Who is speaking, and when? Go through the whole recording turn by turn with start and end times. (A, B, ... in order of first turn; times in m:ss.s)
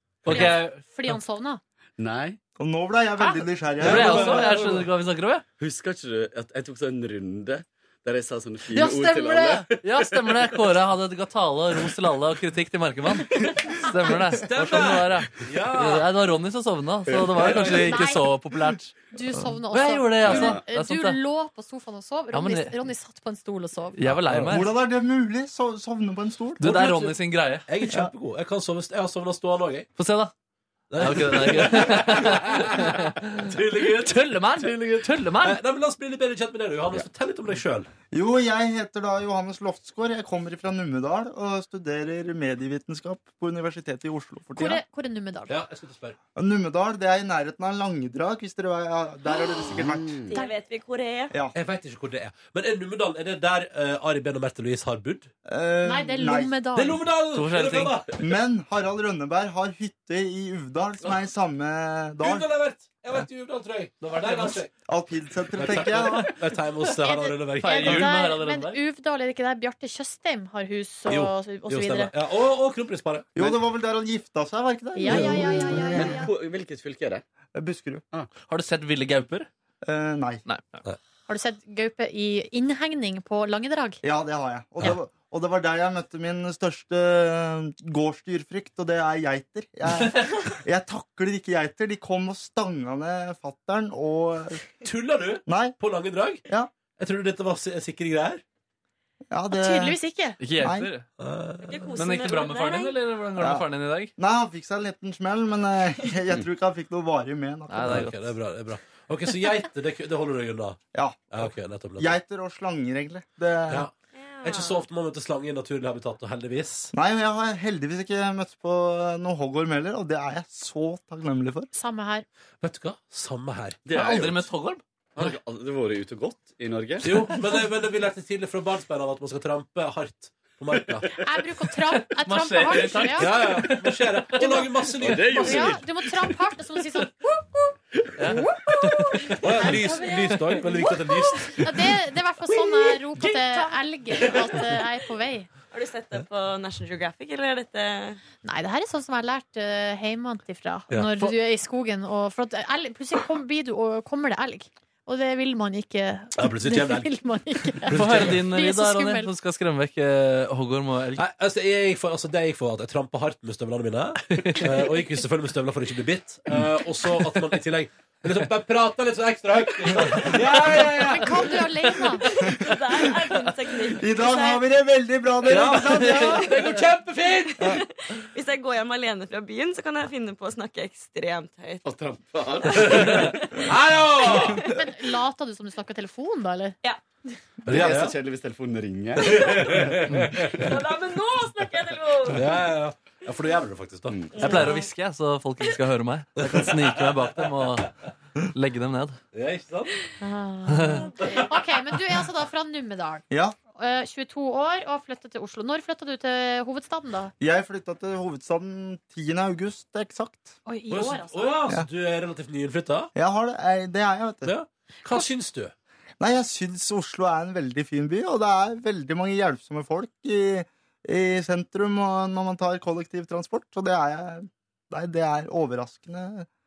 0:00.2-0:00.8 A
0:00.3-0:01.6 B
0:02.0-0:02.4 C
0:02.6-0:04.3 D
0:03.8-0:05.4 A
0:03.8-0:04.8 E
0:05.6-0:10.1 C
0:08.7-0:19.0 A
0:14.4-0:16.1 E
0:17.1-0:17.4 C
0:17.4-0:18.0 E
0:17.7-0:18.3 B
0:19.1-0:24.0 B
0:19.6-0:21.2 A
0:20.2-0:20.6 C
0:22.3-0:22.7 A
0:24.0-0:24.7 A
0:24.1-0:24.5 E
0:24.4-0:27.1 D
0:26.6-0:27.7 A
0:26.6-0:26.9 E
0:27.7-0:29.9 E
0:30.0-0:30.3 A
0:30.9-0:37.9 E
0:31.0-0:35.6 A
0:38.1-0:44.8 D
0:44.6-0:45.6 B
0:45.5-0:46.2 E
0:46.4-0:50.2 D
0:49.6-0:50.3 C
0:50.3-0:51.3 F
0:51.5-0:55.3 E
0:55.4-0:56.6 D
0:55.8-0:57.0 B
0:56.7-0:58.1 E
0:57.3-0:58.0 A
0:58.2-1:02.5 D
1:02.2-1:04.7 E
1:04.0-1:04.6 A
1:04.8-1:06.2 D
1:05.5-1:08.1 E
1:07.0-1:12.1 B
1:07.6-1:08.8 A
1:11.1-1:13.6 E
1:13.4-1:16.1 D
1:14.9-1:16.3 B
1:15.1-1:15.5 E
1:15.9-1:17.2 C
1:17.5-1:18.0 D
1:18.5-1:19.5 A
1:19.8-1:20.4 D
1:20.4-1:20.8 A
1:21.3-1:24.0 B
1:24.0-1:34.6 D
1:34.8-1:36.4 E
1:35.4-1:35.8 D
1:37.0-1:38.4 E
1:39.3-1:40.0 D
1:39.5-1:40.4 B
1:40.4-1:41.0 A
1:40.5-1:40.9 D
1:41.2-1:41.8 E
1:41.6-1:43.0 F
1:41.9-1:44.1 A
1:43.4-1:43.6 D
1:44.2-1:48.0 D
1:47.7-1:48.3 A
1:47.8-1:50.8 E
1:50.9-1:53.9 D
1:51.3-1:52.2 E
1:54.1-1:54.8 F
1:54.4-1:56.9 E
1:56.9-2:01.7 D
2:01.7-2:02.2 B
2:02.6-2:03.8 E
2:03.8-2:04.5 C
2:03.9-2:04.8 A
2:05.2-2:07.4 C
2:07.0-2:11.1 E
2:10.7-2:11.2 C
2:11.2-2:13.3 B
2:12.1-2:14.5 A
2:13.1-2:15.8 E
2:14.4-2:14.7 B
2:15.0-2:15.8 C
2:15.3-2:17.6 B
2:18.2-2:19.2 A
2:18.3-2:25.5 B
2:19.4-2:21.8 E
2:23.4-2:23.8 F
2:25.7-2:28.2 F
2:28.4-2:39.3 B
2:36.4-2:37.1 E
2:37.7-2:38.4 E
2:37.9-2:41.2 A
2:41.2-2:51.5 E
2:44.3-2:44.7 A
2:50.9-2:52.2 B
2:52.2-2:54.7 F
2:54.0-2:56.5 D
2:55.4-2:57.6 E
2:55.8-2:56.4 A
2:57.4-3:01.8 F
3:01.8-3:03.4 C
3:02.8-3:04.6 E
3:03.3-3:04.8 F
3:04.7-3:06.7 B
3:07.7-3:08.1 E
3:07.7-3:10.0 C
3:09.2-3:10.7 E
3:09.3-3:09.6 F
3:10.5-3:12.5 F
3:12.3-3:14.2 E
3:14.1-3:14.4 C
3:14.3-3:14.9 F
3:14.4-3:17.9 A
3:16.4-3:17.5 E
3:18.5-3:19.2 A
3:19.3-3:19.9 E
3:20.2-3:27.3 B
3:20.7-3:21.0 A
3:21.0-3:21.6 F
3:23.3-3:23.6 D
3:27.4-3:30.6 D
3:30.6-3:31.5 B
3:30.9-3:33.1 E
3:33.1-3:34.5 D
3:34.4-3:35.7 E
3:35.0-3:35.3 B
3:36.2-3:46.5 D